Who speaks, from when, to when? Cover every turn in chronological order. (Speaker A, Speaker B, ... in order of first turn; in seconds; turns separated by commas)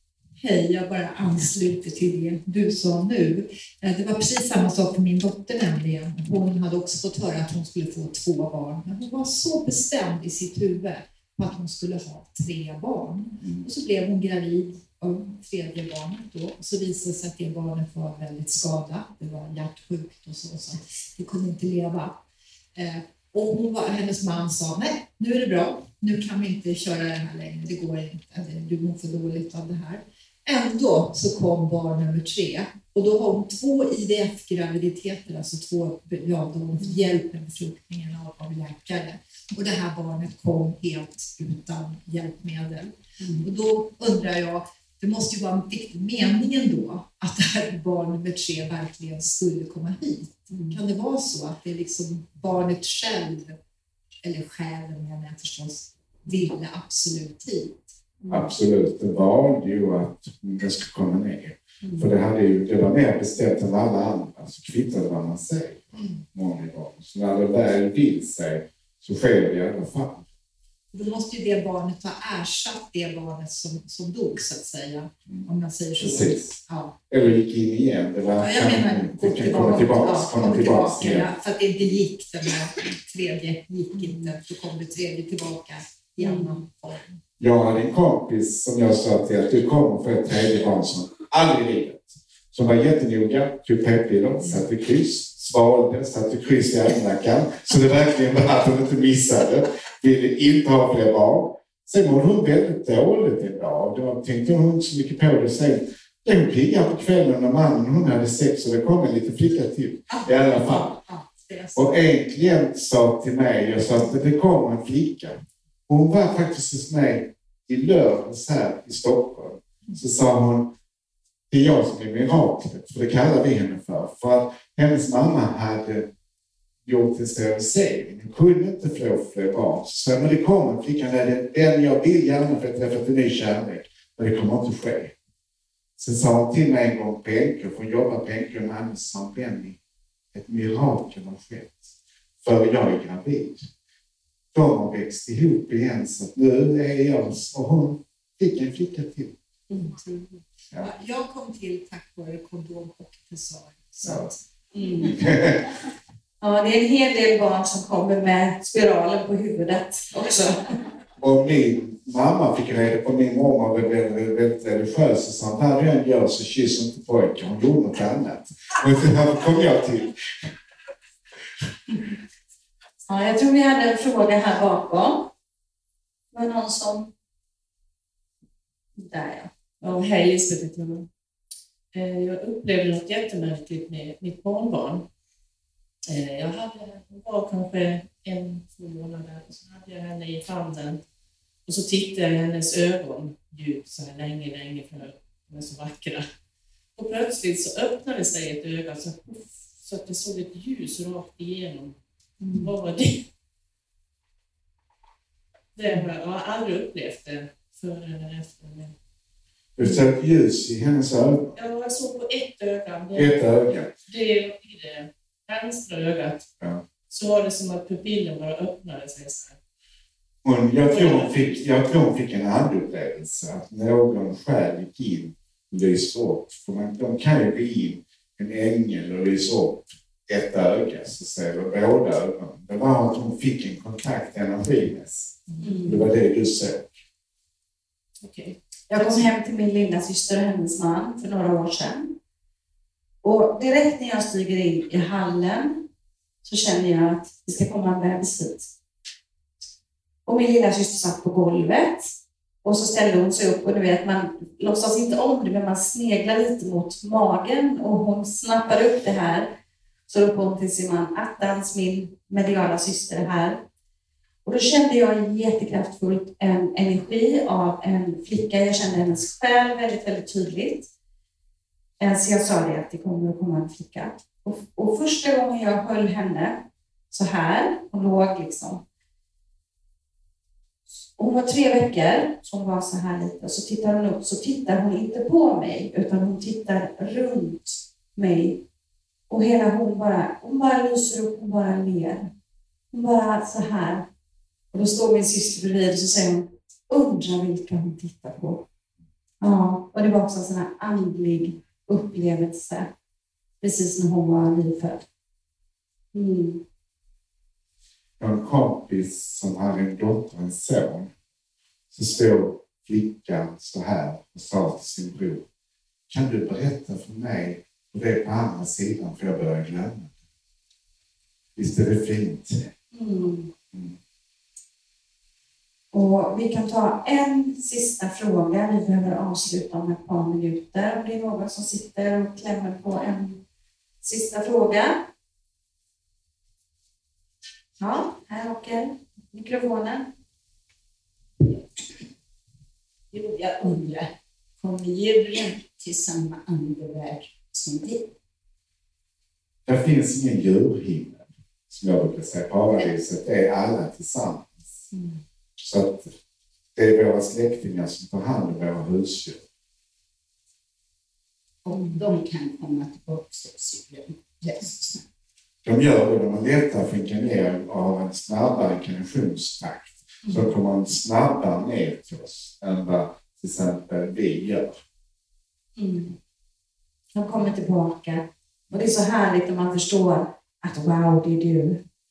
Speaker A: 0.4-22.2, Speaker B: 13.4-13.7, Speaker A: 22.7-53.6, Speaker C: 43.2-43.5, Speaker C: 50.5-50.8, Speaker A: 54.2-57.9, Speaker C: 58.2-58.5, Speaker B: 58.3-70.2, Speaker C: 61.8-62.1, Speaker A: 70.9-77.0, Speaker B: 75.3-76.6, Speaker B: 77.1-81.3, Speaker A: 78.4-87.2, Speaker C: 83.9-84.3, Speaker C: 86.2-86.5, Speaker B: 87.4-111.0, Speaker A: 110.1-112.1, Speaker B: 111.8-120.7, Speaker B: 121.5-126.1, Speaker B: 126.8-135.1, Speaker B: 136.0-139.8, Speaker B: 140.3-143.7, Speaker B: 144.5-149.3, Speaker C: 149.7-150.1, Speaker A: 149.9-154.4, Speaker B: 154.0-154.3, Speaker C: 154.7-155.2, Speaker B: 155.0-155.7, Speaker C: 156.4-160.8, Speaker B: 161.2-170.1, Speaker C: 173.1-175.3, Speaker C: 176.3-177.1, Speaker C: 179.0-179.5, Speaker D: 179.8-181.1, Speaker D: 181.9-185.1, Speaker D: 186.1-191.0, Speaker D: 191.7-196.2, Speaker D: 196.9-202.0, Speaker C: 202.4-202.7, Speaker D: 202.6-203.2, Speaker D: 205.7-208.9, Speaker B: 209.8-211.6, Speaker D: 211.5-213.4, Speaker B: 213.1-213.9, Speaker D: 214.1-216.5, Speaker D: 217.1-219.6, Speaker B: 220.4-236.9, Speaker D: 220.9-221.6, Speaker C: 235.6-236.1, Speaker D: 238.2-239.1, Speaker C: 238.9-242.1, Speaker C: 243.2-245.9, Speaker C: 246.4-248.7, Speaker C: 250.2-252.1, Speaker C: 252.6-259.5, Speaker C: 260.1-263.6, Speaker C: 264.4-270.9, Speaker C: 272.0-278.8, Speaker C: 281.1-288.6, Speaker C: 289.3-292.3, Speaker C: 292.9-294.1, Speaker C: 294.7-298.6, Speaker C: 299.4-302.9, Speaker C: 303.6-305.0, Speaker C: 306.1-306.6, Speaker B: 308.2-311.1, Speaker B: 311.9-315.4, Speaker B: 316.1-320.1, Speaker B: 321.6-322.6, Speaker C: 322.9-323.5, Speaker C: 325.9-333.4, Speaker C: 334.0-335.1, Speaker C: 337.8-340.1, Speaker E: 343.1-348.1, Speaker B: 349.6-354.6, Speaker B: 355.6-356.1, Speaker B: 356.8-359.4, Speaker E: 361.6-365.0, Speaker C: 361.7-362.0, Speaker B: 365.6-374.8, Speaker C: 370.2-370.5, Speaker C: 375.8-376.1, Speaker C: 377.1-381.8